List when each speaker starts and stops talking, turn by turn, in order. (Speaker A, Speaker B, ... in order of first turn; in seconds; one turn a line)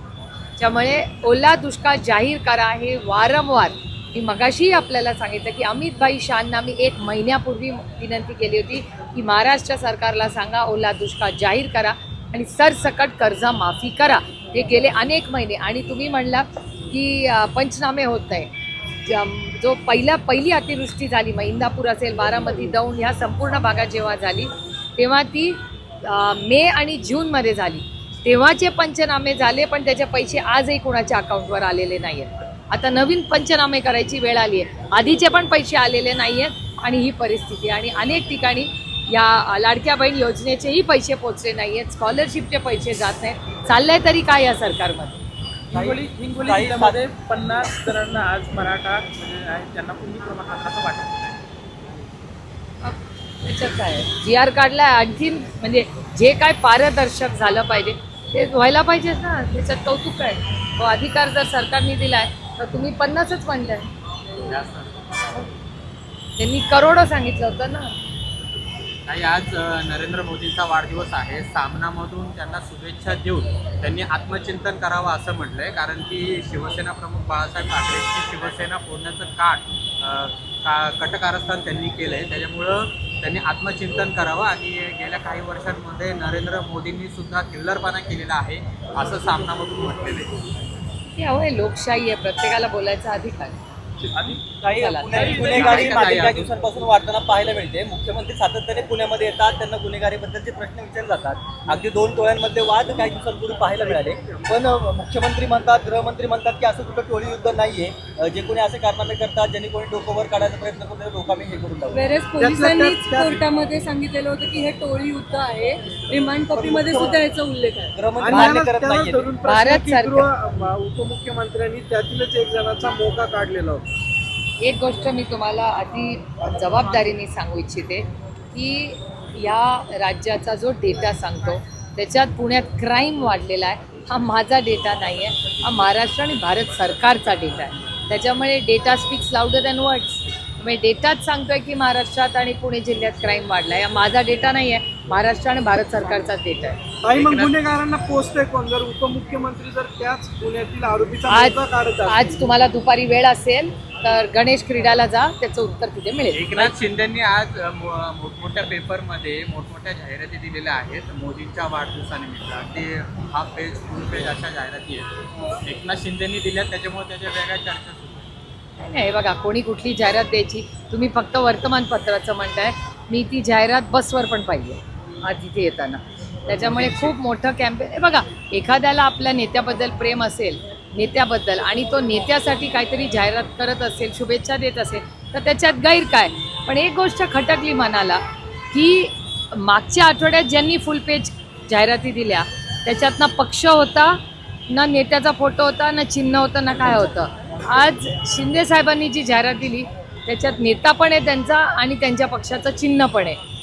Speaker A: 0.6-18.5
Speaker A: 19.1-45.2
Speaker B: 45.7-51.4
Speaker C: 45.7-47.0
Speaker A: 52.8-63.9
Speaker D: 64.4-65.4
Speaker A: 66.4-67.9
Speaker D: 69.1-90.3
Speaker A: 91.2-93.6
Speaker C: 94.4-112.1
Speaker A: 94.7-95.8
Speaker D: 95.1-96.5
Speaker E: 103.8-104.5
Speaker F: 111.9-118.0
Speaker E: 112.4-113.5
Speaker C: 116.5-117.2
Speaker C: 117.9-119.3
Speaker E: 118.2-123.8
Speaker A: 118.3-118.6
Speaker A: 119.5-120.3
Speaker A: 124.6-146.8
Speaker E: 147.0-152.5
Speaker D: 147.1-147.6
Speaker A: 151.3-156.7
Speaker D: 156.3-165.1
Speaker D: 165.6-168.3
Speaker A: 168.8-203.4
Speaker D: 176.7-177.1